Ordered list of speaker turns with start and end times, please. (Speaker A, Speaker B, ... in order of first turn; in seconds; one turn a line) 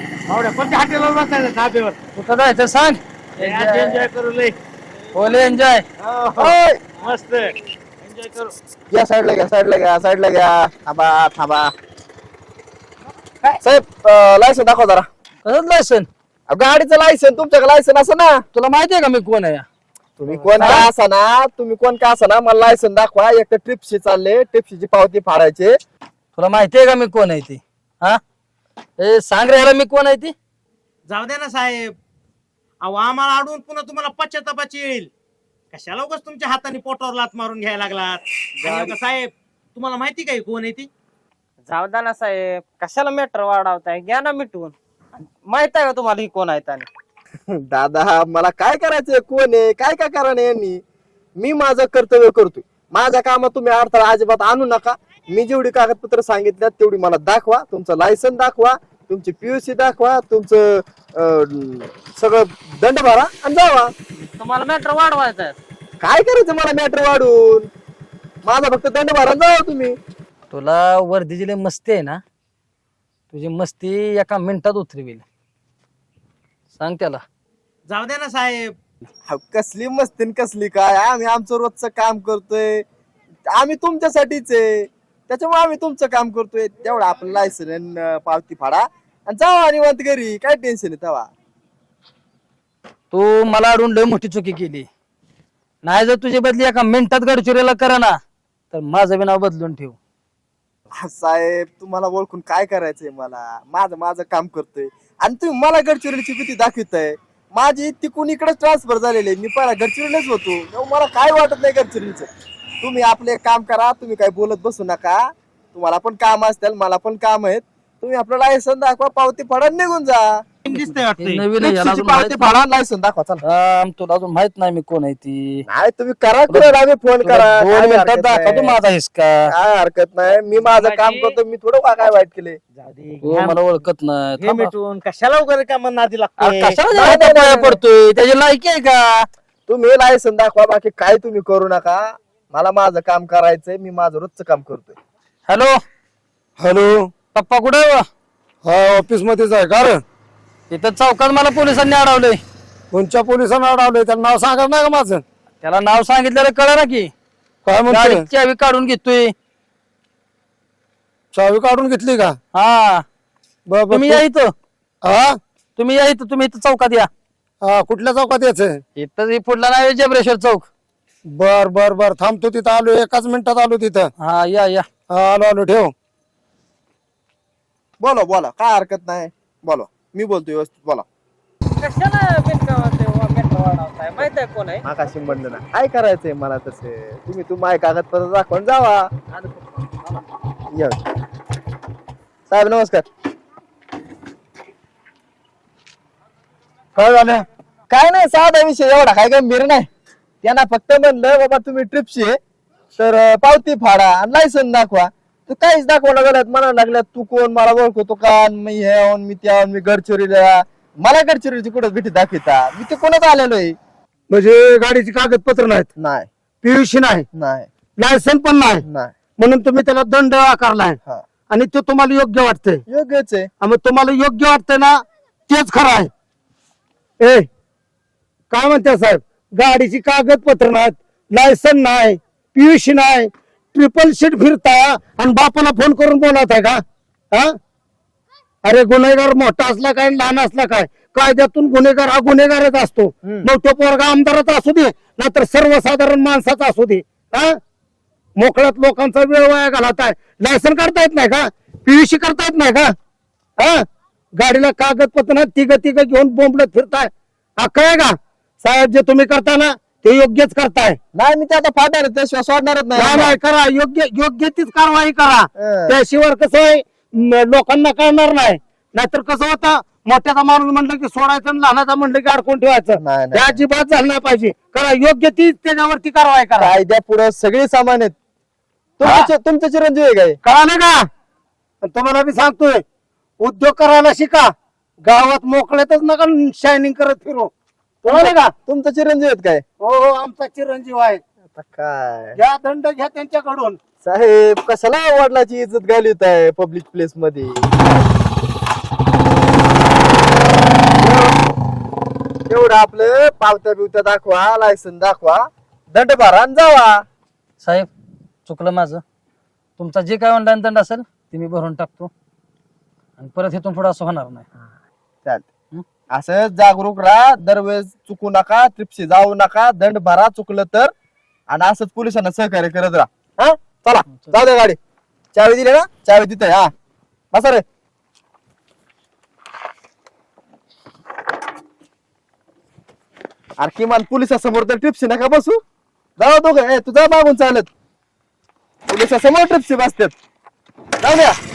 Speaker A: 0.3-2.0
Speaker B: 2.2-4.0
Speaker A: 3.4-4.5
Speaker B: 5.1-5.8
Speaker A: 5.2-8.5
Speaker C: 6.4-6.8
Speaker C: 8.9-11.7
Speaker C: 13.6-15.1
Speaker B: 15.4-16.1
Speaker C: 16.5-18.4
Speaker B: 18.5-19.7
Speaker C: 20.2-25.8
Speaker B: 20.6-20.9
Speaker B: 26.4-28.2
Speaker B: 29.0-30.4
Speaker A: 31.1-31.9
Speaker A: 32.8-35.1
Speaker A: 35.7-40.9
Speaker D: 38.6-39.0
Speaker D: 41.7-46.9
Speaker C: 47.5-50.8
Speaker C: 51.4-63.9
Speaker D: 64.2-65.6
Speaker C: 66.0-67.7
Speaker C: 68.5-70.0
Speaker B: 70.5-72.2
Speaker B: 73.3-75.2
Speaker B: 76.8-77.2
Speaker A: 77.9-78.7
Speaker C: 79.3-82.8
Speaker C: 83.5-91.3
Speaker B: 93.1-94.9
Speaker B: 95.8-98.2
Speaker B: 98.7-100.0
Speaker C: 101.0-112.3
Speaker C: 112.8-120.4
Speaker A: 120.7-121.4
Speaker B: 120.7-122.6
Speaker C: 121.6-123.4
Speaker B: 123.4-125.7
Speaker C: 125.7-128.8
Speaker B: 126.5-129.5
Speaker C: 129.5-132.6
Speaker A: 130.6-131.3
Speaker A: 132.8-133.6
Speaker B: 133.2-134.7
Speaker A: 134.4-136.8
Speaker B: 136.4-139.2
Speaker C: 136.9-137.8
Speaker C: 139.7-145.0
Speaker B: 145.5-145.8
Speaker E: 146.6-147.1
Speaker B: 147.3-148.0
Speaker E: 148.6-150.0
Speaker B: 150.7-152.4
Speaker E: 152.9-155.2
Speaker B: 155.6-157.1
Speaker E: 157.6-158.2
Speaker B: 157.9-159.3
Speaker E: 161.3-162.4
Speaker B: 162.5-163.0
Speaker E: 163.7-164.2
Speaker B: 163.9-164.5
Speaker E: 165.0-165.4
Speaker B: 165.8-167.1
Speaker E: 167.6-168.8
Speaker B: 169.0-170.7
Speaker E: 171.3-174.1
Speaker B: 174.2-174.9
Speaker E: 175.1-175.9
Speaker C: 178.0-181.0
Speaker D: 181.8-184.8
Speaker C: 184.8-189.1
Speaker D: 189.4-189.9
Speaker C: 190.7-191.0
Speaker C: 192.5-193.1
Speaker E: 196.9-197.4
Speaker C: 197.9-199.9
Speaker C: 200.4-202.4
Speaker C: 202.9-213.8
Speaker E: 214.3-215.9
Speaker C: 216.0-216.3
Speaker E: 216.6-217.2
Speaker C: 217.3-217.7
Speaker E: 218.0-218.8
Speaker C: 218.8-219.1
Speaker E: 219.4-221.0
Speaker E: 221.5-222.8
Speaker C: 222.9-223.5
Speaker E: 223.6-226.1
Speaker E: 227.2-227.5
Speaker E: 228.5-237.5
Speaker E: 238.6-247.6
Speaker C: 243.2-243.5
Speaker E: 248.4-252.9
Speaker E: 254.4-261.0
Speaker C: 261.1-263.4
Speaker E: 262.9-276.7
Speaker C: 265.6-266.0
Speaker C: 273.0-273.6
Speaker C: 276.6-278.1
Speaker C: 279.0-280.4
Speaker E: 279.0-279.3
Speaker E: 280.4-281.1
Speaker E: 281.8-282.8
Speaker E: 283.4-284.5
Speaker E: 285.0-287.5
Speaker E: 288.1-288.5
Speaker C: 288.1-289.6
Speaker E: 289.8-291.2
Speaker C: 291.5-292.4
Speaker E: 292.4-293.8
Speaker C: 294.0-297.8
Speaker C: 301.0-301.4
Speaker C: 302.5-307.0
Speaker B: 307.6-307.9
Speaker B: 308.4-309.0
Speaker B: 309.8-312.1
Speaker B: 313.2-314.4
Speaker C: 316.1-320.9
Speaker C: 321.5-324.8
Speaker C: 325.3-326.7
Speaker C: 327.3-327.6
Speaker C: 333.6-335.6
Speaker C: 336.2-337.7
Speaker C: 338.9-340.1
Speaker C: 341.0-341.3